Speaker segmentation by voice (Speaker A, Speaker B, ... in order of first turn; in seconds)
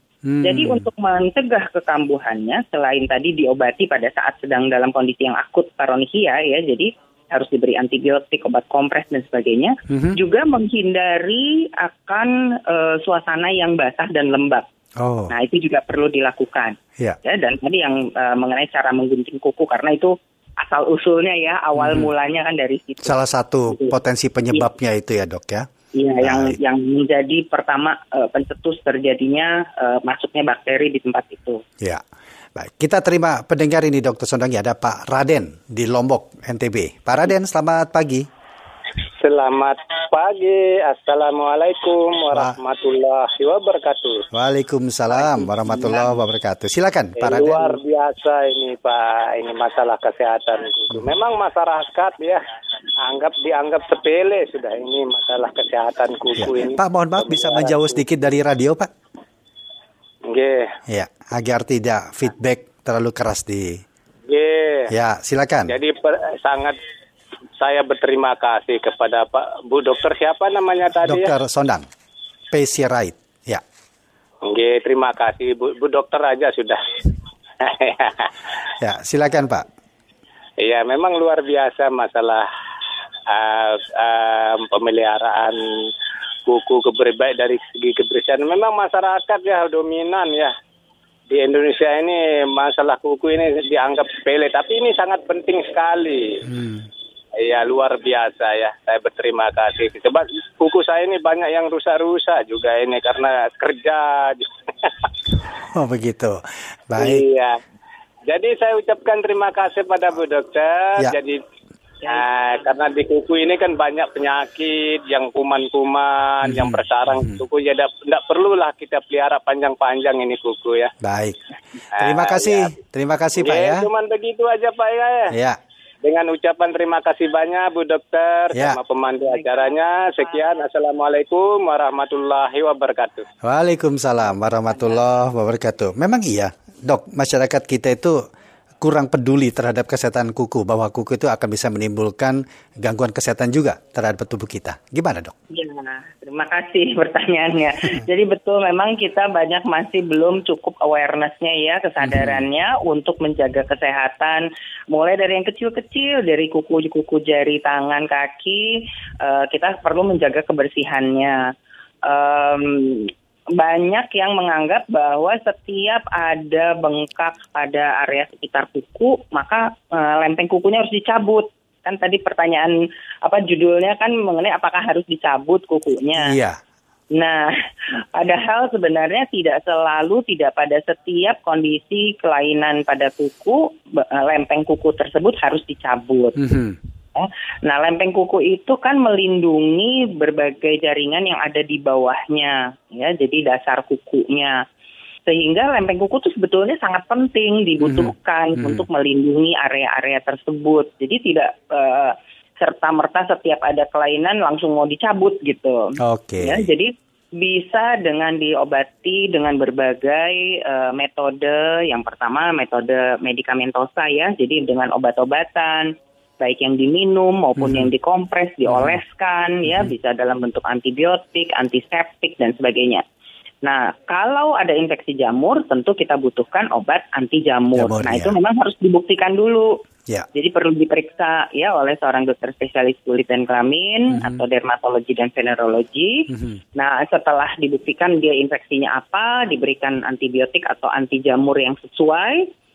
Speaker A: 0.3-0.9, 9.9-10.2, 15.0-15.3, 21.8-22.1, 23.0-25.7, 26.2-26.6, 32.6-38.3, 44.3-47.8, 56.4-58.9, 60.9-63.8, 64.9-65.7, 71.0-71.8, 72.5-73.6, 78.8-79.7, 96.5-96.9, 105.7-106.4, 106.9-107.2, 116.5-117.4, 121.0-121.4, 121.9-123.9, 125.3-125.6, 133.4-138.2, 138.8-145.3, 152.0-152.4, 176.2-176.6, 186.4-186.8, 197.8-198.8, 206.0-206.7, 217.6-217.9, 218.7-219.0, 219.7-219.9, 227.8-228.4, 234.1-234.4, 236.3-236.6
Speaker B: 0.4-14.7, 15.3-23.2, 23.7-23.9, 25.9-31.6, 112.0-112.7, 145.5-161.4, 162.1-176.4, 177.1-177.6, 178.1-186.4, 187.2-194.6, 195.3-223.0, 223.6-229.7, 230.3-242.5
Speaker C: 39.2-44.3, 45.2-46.1, 47.2-52.4, 53.0-58.0, 60.3-60.6, 64.3-64.9, 65.7-66.8, 67.6-71.3, 74.5-76.8, 77.6-78.3, 80.6-82.5, 83.3-85.6, 86.5-90.5, 91.3-96.4, 97.4-105.1, 107.0-107.6, 108.3-111.4, 112.1-120.9, 122.0-122.7, 123.4-125.3, 126.0-133.3